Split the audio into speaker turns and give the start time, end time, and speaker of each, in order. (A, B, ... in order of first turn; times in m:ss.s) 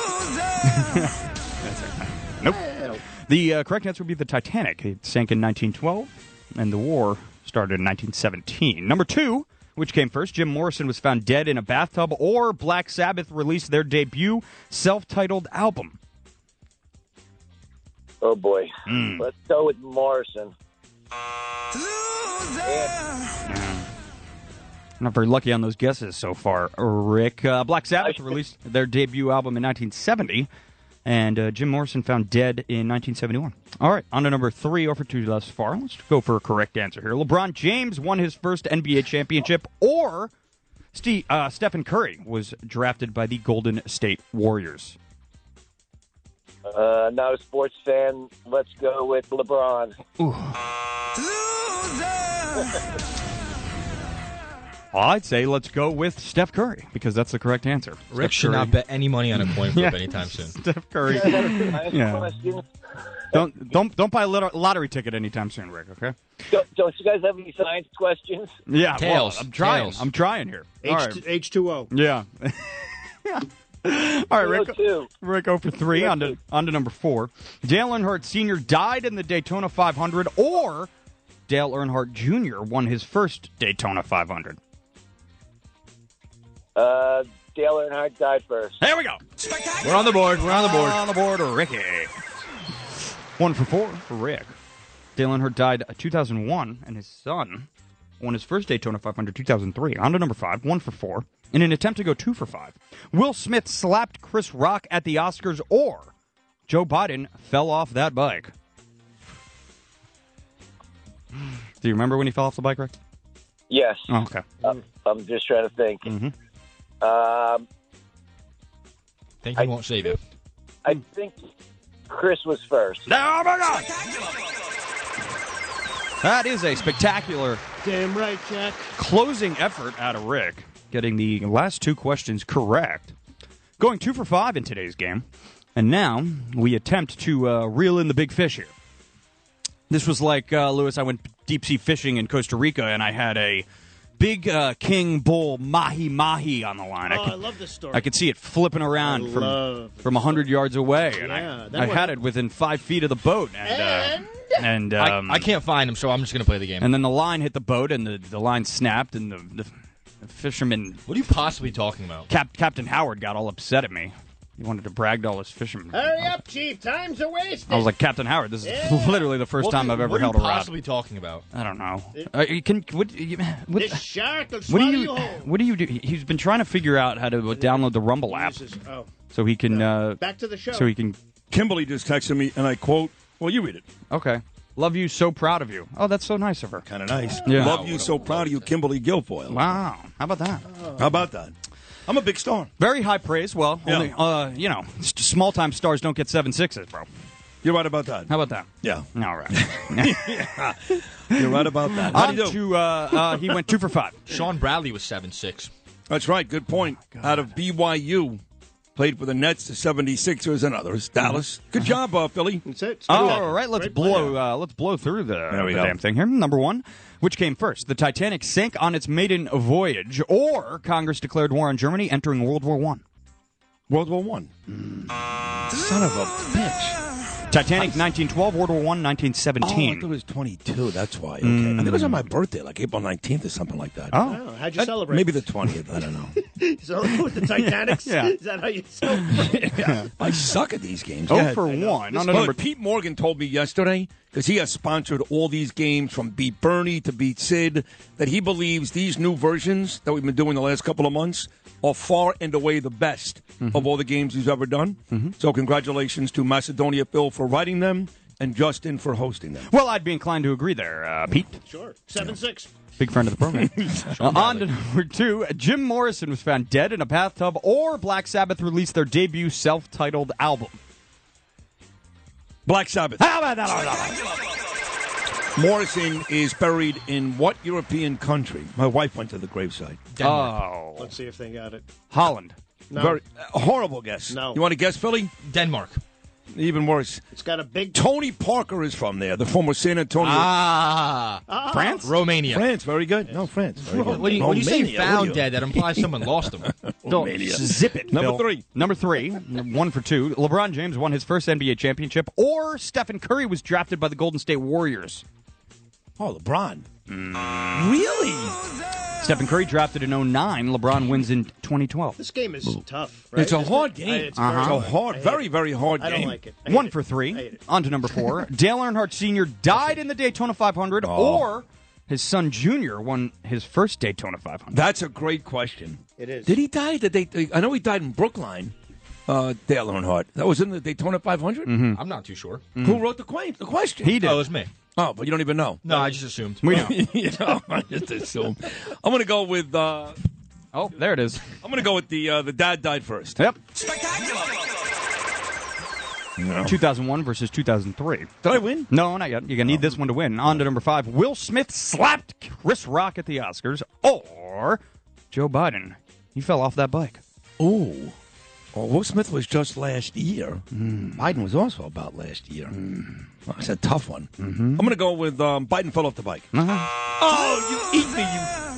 0:00.6-0:02.7 A
0:02.4-0:03.0 B
0:03.2-0:16.0 A
0:18.2-0:20.5 C
0:18.9-0:19.3 A
0:22.6-0:22.9 C
0:23.5-0:23.9 A
0:25.0-0:30.5 A
0:28.0-0:28.3 C
0:31.0-0:40.3 A
0:40.9-0:45.0 A
0:46.7-0:50.0 C
0:50.2-0:50.6 A
0:54.9-0:58.8 A
0:58.1-1:00.6 D
0:59.7-1:02.3 A
1:01.3-1:02.6 C
1:03.3-1:06.2 A
1:06.5-1:08.5 C
1:08.7-1:11.2 A
1:09.0-1:10.1 D
1:10.8-1:11.9 B
1:11.9-1:20.9 A
1:14.4-1:15.1 C
1:16.0-1:16.4 C
1:21.5-1:24.6 A
1:26.8-1:28.8 C
1:28.8-1:29.2 A
1:29.8-1:31.0 D
1:30.4-1:32.1 A
1:33.4-1:34.5 A
1:35.2-1:37.7 A
1:38.2-1:46.1 A
1:46.7-1:48.5 A
1:51.8-1:52.9 A
1:53.7-1:54.1 C
1:54.1-1:54.4 A
1:54.7-1:56.1 C
1:56.0-1:56.3 A
1:57.0-1:57.7 C
1:59.4-2:00.2 D
2:00.8-2:01.4 C
2:02.1-2:03.0 C
2:03.1-2:03.9 A
2:06.2-2:07.6 A
2:07.8-2:08.9 B
2:09.0-2:13.2 A
2:13.8-2:18.7 A
2:19.9-2:23.7 A
2:24.2-2:27.4 A
2:27.1-2:28.1 B
2:27.9-2:35.5 A
2:29.0-2:30.5 B
2:31.1-2:32.2 B
2:33.6-2:34.7 B
2:35.0-2:36.9 D
2:36.8-2:39.7 A
2:40.2-2:41.0 A
2:41.1-2:42.3 D
2:42.3-2:46.3 A
2:45.9-2:47.9 B
2:47.7-2:50.7 A
2:48.6-2:49.3 B
2:49.6-2:51.4 D
2:51.5-2:54.0 A
2:53.8-2:55.5 B
2:54.7-2:58.6 A
2:57.6-2:59.1 B
2:59.3-3:01.2 A
2:59.7-3:00.9 B
3:01.5-3:03.8 E
3:04.1-3:06.8 A
3:06.8-3:09.8 E
3:07.4-3:07.8 A
3:07.5-3:08.7 D
3:09.5-3:10.6 A
3:10.7-3:11.2 B
3:11.0-3:11.6 E
3:12.1-3:12.7 E
3:12.8-3:17.1 A
3:13.8-3:14.1 E
3:17.6-3:23.4 E
3:18.3-3:20.4 A
3:22.1-3:24.2 A
3:24.3-3:25.7 D
3:26.1-3:28.4 E
3:27.0-3:27.5 A
3:29.0-3:33.5 E
3:31.2-3:31.9 A
3:32.7-3:34.4 B
3:33.1-3:43.0 A
3:35.5-3:36.0 E
3:43.9-3:44.5 E
3:45.7-3:47.0 E
3:47.5-3:50.1 A
3:49.6-3:56.4 E
3:51.4-3:52.3 A
3:54.1-3:54.4 A
3:54.2-3:55.5 B
3:56.4-3:59.8 B
3:57.6-3:58.4 A
3:59.3-4:19.7 E
3:59.8-4:00.1 A
4:01.3-4:02.6 A
4:01.8-4:02.1 B
4:19.7-4:21.6 A
4:21.7-4:22.7 B
4:23.0-4:30.8 A
4:23.6-4:24.1 E
4:24.0-4:24.7 D
4:32.7-4:33.2 E
4:33.2-4:34.2 A
4:35.6-4:40.0 E
4:40.1-4:40.6 D
4:40.2-4:41.1 A
4:41.0-4:41.8 B
4:42.1-4:42.6 A
4:42.9-4:43.2 B
4:43.0-4:45.3 E
4:44.3-4:44.6 B
4:45.4-4:46.0 D
4:46.5-4:47.2 E
4:47.3-4:48.0 B
4:47.9-4:50.5 E
4:50.2-4:51.5 D
4:51.5-4:52.1 B
4:51.7-4:52.1 A
4:52.0-4:52.7 D
4:52.4-4:56.0 E
4:53.8-4:56.7 D
4:56.6-4:58.6 E
4:57.1-5:05.2 A
5:06.2-5:06.9 E
5:07.1-5:08.0 A
5:07.7-5:08.6 E
5:09.2-5:12.2 A
5:12.2-5:17.6 B
5:13.3-5:16.4 E
5:14.4-5:14.8 A
5:16.7-5:24.8 A
5:21.0-5:21.5 E
5:24.7-5:28.7 E
5:26.2-5:26.6 B
5:29.3-5:31.8 E
5:31.7-5:32.0 A
5:31.9-5:32.6 D
5:32.8-5:33.1 A
5:32.8-5:34.2 E
5:34.0-5:34.5 A
5:34.2-5:34.7 D
5:35.0-5:36.0 E
5:35.8-5:36.7 D
5:36.6-5:37.0 A
5:36.6-5:40.2 E
5:40.7-5:41.4 A
5:41.6-5:43.4 E
5:46.4-5:46.8 E
5:46.6-5:48.3 A
5:48.4-5:48.9 E
5:48.9-5:57.2 A
5:49.6-5:50.6 E
5:57.6-5:58.2 E
5:58.7-6:02.8 E
6:00.8-6:01.2 A
6:02.8-6:03.1 A
6:03.4-6:06.5 E
6:04.4-6:04.9 A
6:06.5-6:06.9 A
6:07.2-6:08.5 E